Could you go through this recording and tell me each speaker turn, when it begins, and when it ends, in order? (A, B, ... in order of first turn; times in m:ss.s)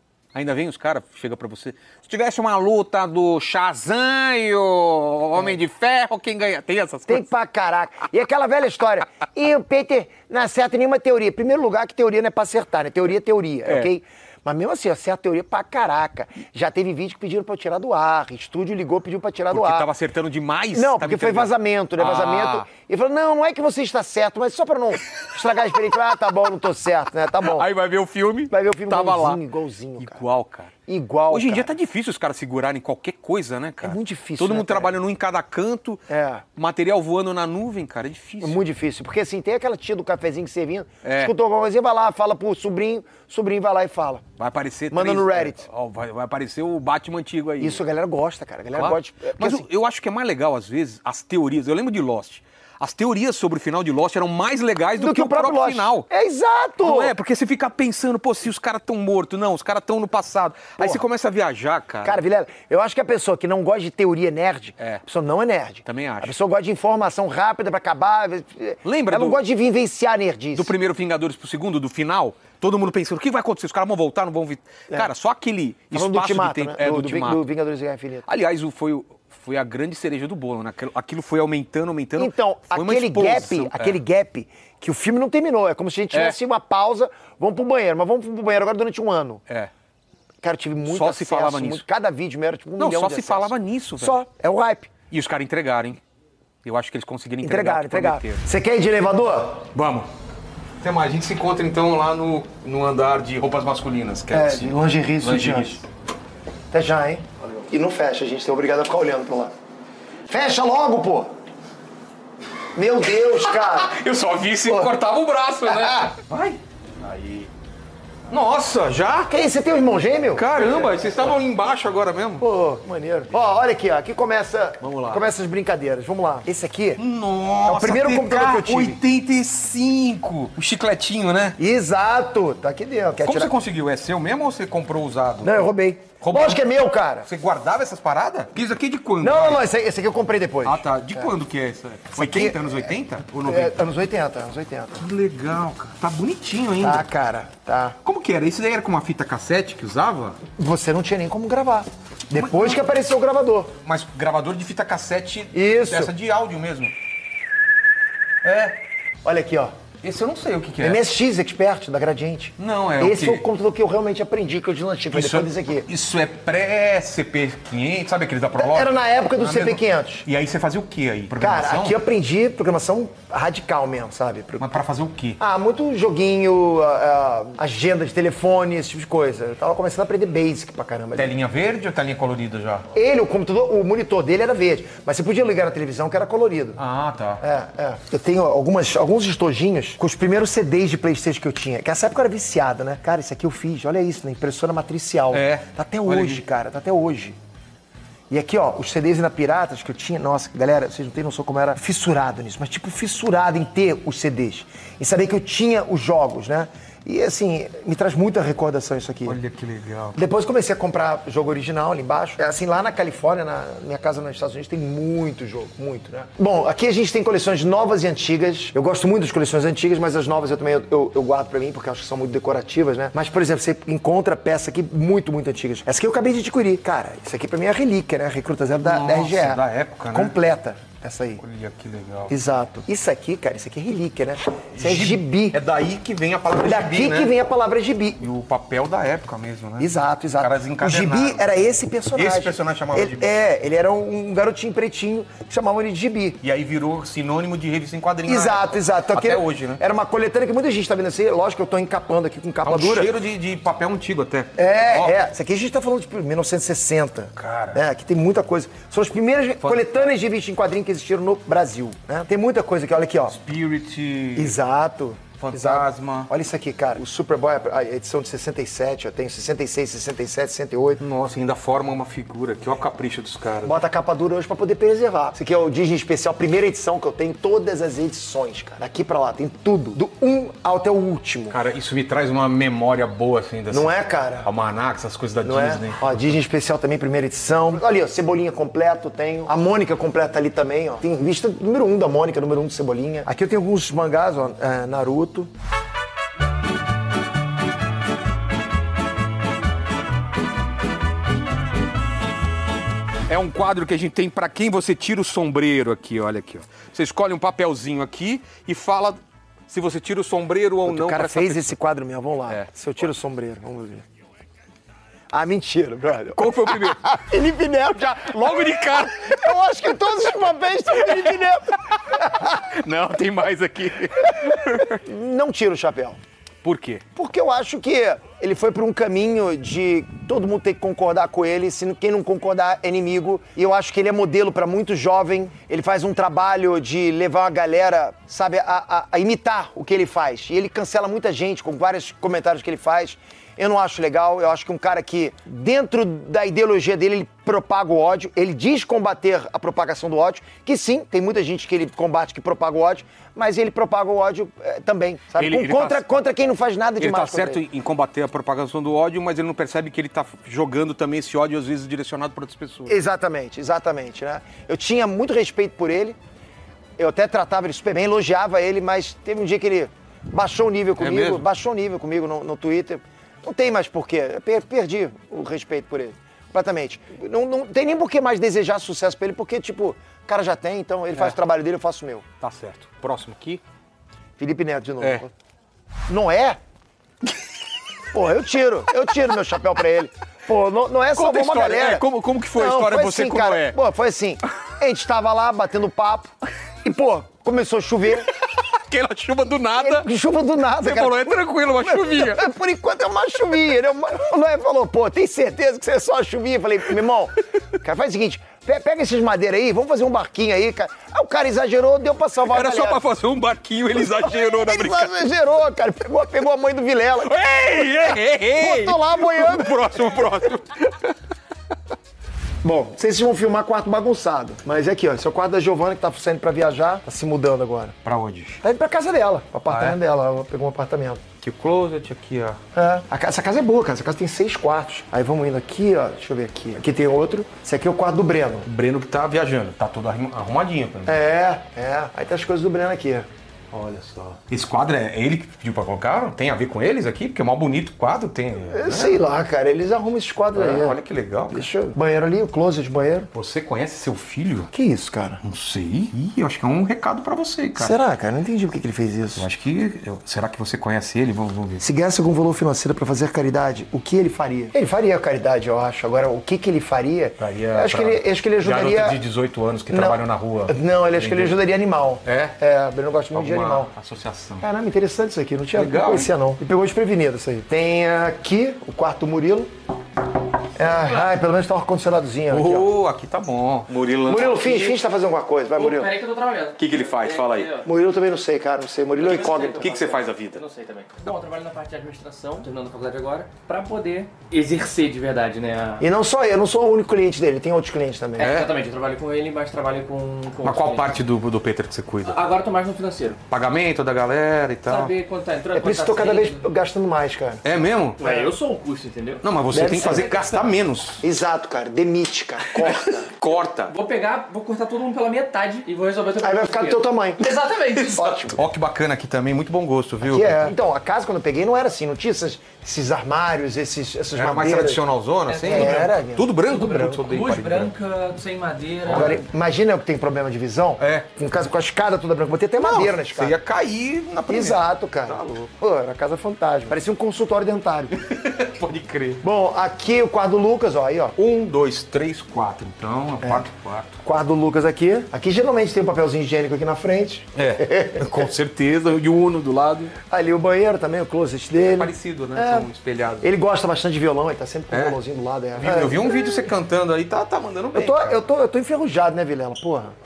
0:00.3-0:07.3 A
0:07.1-0:19.9 B
0:19.5-0:22.7 A
0:20.7-0:27.7 B
0:27.4-0:29.4 A
0:28.5-0:30.2 B
0:30.0-0:30.7 A
0:30.9-0:31.7 B
0:31.3-0:36.0 A
0:33.8-0:34.9 B
0:36.1-0:36.4 B
0:36.6-0:38.6 A
0:38.4-0:44.2 B
0:41.0-0:41.3 A
0:44.4-0:47.8 A
0:44.9-0:45.6 B
0:47.6-0:49.6 B
0:48.7-0:56.1 A
0:55.0-0:57.1 B
0:56.8-1:02.2 A
1:02.0-1:10.7 B
1:05.8-1:06.4 A
1:08.8-1:09.4 A
1:10.5-1:17.4 A
1:15.9-1:18.3 B
1:18.3-1:24.0 A
1:22.2-1:29.4 B
1:30.4-1:34.9 B
1:30.8-1:31.8 A
1:32.8-1:34.2 A
1:35.1-1:36.0 A
1:36.6-1:38.4 A
1:37.4-1:39.7 B
1:39.7-1:40.1 A
1:40.8-1:45.8 A
1:44.3-1:45.8 B
1:46.7-1:49.5 B
1:50.3-1:51.3 B
1:52.8-1:54.0 B
1:53.7-1:57.5 A
1:55.7-1:56.1 B
1:58.3-1:59.3 A
1:59.3-2:01.3 B
2:00.4-2:02.4 A
2:02.4-2:07.0 B
2:04.8-2:05.2 A
2:07.0-2:11.6 A
2:07.6-2:09.0 B
2:11.6-2:13.5 B
2:13.2-2:16.6 A
2:15.4-2:17.3 B
2:17.2-2:19.6 A
2:19.2-2:21.3 B
2:20.6-2:23.8 A
2:22.1-2:22.9 B
2:23.4-2:25.0 B
2:25.0-2:27.1 A
2:26.8-2:28.0 B
2:28.0-2:30.4 A
2:30.6-2:33.7 B
2:32.3-2:32.8 A
2:33.8-2:36.9 A
2:35.5-2:36.1 B
2:38.4-2:38.8 A
2:39.2-2:39.7 B
2:40.0-2:41.0 A
2:40.8-2:45.9 B
2:42.6-2:43.4 A
2:45.1-2:52.0 A
2:48.6-2:50.2 B
2:51.4-2:54.7 B
2:54.6-2:55.4 A
2:55.4-3:01.3 B
3:01.2-3:02.8 A
3:02.9-3:06.8 B
3:06.8-3:07.4 A
3:07.4-3:17.4 B
3:15.3-3:16.4 A
3:18.3-3:29.4 B
3:29.2-3:30.2 A
3:30.1-3:51.4 B
3:48.8-3:50.3 A
3:51.4-3:52.3 A
3:52.3-3:55.6 B
3:54.8-3:57.3 A
3:56.6-3:58.2 B
3:58.2-4:03.4 A
3:59.8-4:06.4 B
4:06.4-4:09.8 A
4:08.2-4:13.1 B
4:12.6-4:15.1 A
4:14.6-4:23.4 B
4:17.4-4:17.8 A
4:19.6-4:20.1 A
4:23.3-4:24.6 A
4:24.4-4:31.0 B
4:25.4-4:26.3 A
4:31.0-4:33.8 A
4:33.6-4:41.6 B
4:41.5-4:46.3 A
4:43.7-4:44.5 B
4:45.4-4:55.5 B
5:03.3-5:11.6 A
5:10.8-5:14.0 B
5:15.3-5:18.3 B
5:16.4-5:17.0 A
5:18.0-5:19.4 A
5:19.1-5:22.5 B
5:22.6-5:25.0 A
5:24.9-5:26.2 B
5:26.6-5:27.0 A
5:27.2-5:57.6 B
5:55.4-5:56.2 A
5:57.0-6:02.9 A
6:02.9-6:06.2 B
6:07.0-6:22.2 B
6:11.0-6:11.4 A
6:22.4-6:23.6 A
6:24.4-6:25.3 B
6:26.1-6:26.6 B
6:28.1-6:32.0 B
6:31.1-6:33.8 A
6:32.5-6:36.3 B
6:36.8-6:38.3 B
6:38.7-6:40.1 A
6:39.8-6:53.0 B
6:40.8-6:42.4 A
6:52.5-6:55.2 A
6:54.2-6:57.4 B
6:57.2-7:01.1 A
6:58.0-7:00.0 B
7:02.6-7:07.9 B
7:08.0-7:08.6 A
7:08.6-7:11.2 B
7:09.7-7:10.0 A
7:11.4-7:12.6 A
7:12.7-7:18.7 B
7:18.7-7:21.1 A
7:21.0-7:23.3 B
7:23.7-7:29.2 A
7:28.7-7:31.0 B
7:30.5-7:31.7 A
7:31.5-7:33.3 B
7:33.3-7:34.7 A
7:34.7-7:35.4 B
7:35.4-7:37.9 A
7:37.8-7:39.4 B
7:39.4-7:41.8 A
7:41.8-7:49.2 B
7:47.4-7:51.5 A
7:49.9-7:53.9 B
7:52.2-7:52.6 A
7:53.3-7:54.6 A
7:54.6-7:59.7 B
7:55.7-7:56.3 A
8:00.8-8:02.9 B
8:02.5-8:05.0 A
8:04.3-8:06.1 B
8:05.8-8:07.9 C
8:06.8-8:07.8 A
8:07.8-8:09.9 B
8:09.2-8:16.0 C
8:09.8-8:10.6 A
8:16.0-8:18.5 B
8:18.4-8:21.1 C
8:18.4-8:18.7 A
8:20.6-8:22.4 A
8:22.2-8:23.4 C
8:23.5-8:25.1 A
8:24.9-8:26.6 C
8:25.7-8:27.6 B
8:27.6-8:28.2 A
8:28.2-8:29.4 C
8:28.2-8:28.5 B
8:29.4-8:31.2 A
8:29.7-8:30.6 B
8:30.0-8:30.3 C
8:31.2-8:33.3 B
8:32.7-8:33.9 A
8:33.9-8:38.5 C
8:36.4-8:37.4 B
8:38.0-8:40.7 A
8:38.1-8:38.6 B
8:40.2-8:45.0 B
8:44.4-8:47.9 A
8:45.5-8:46.1 C
8:45.7-8:46.9 B
8:46.6-8:49.4 C
8:49.1-8:49.4 A
8:49.1-8:53.6 B
8:51.0-8:51.3 A
8:52.8-8:55.7 A
8:54.5-8:58.2 B
8:58.1-8:59.4 A
8:59.4-9:01.3 B
9:01.4-9:04.2 A
9:04.2-9:08.4 B
9:07.5-9:10.1 A
9:10.3-9:12.9 B
9:11.9-9:13.5 A
9:13.4-9:16.2 B
9:14.9-9:15.2 A
9:15.8-9:18.4 A
9:17.9-9:20.1 B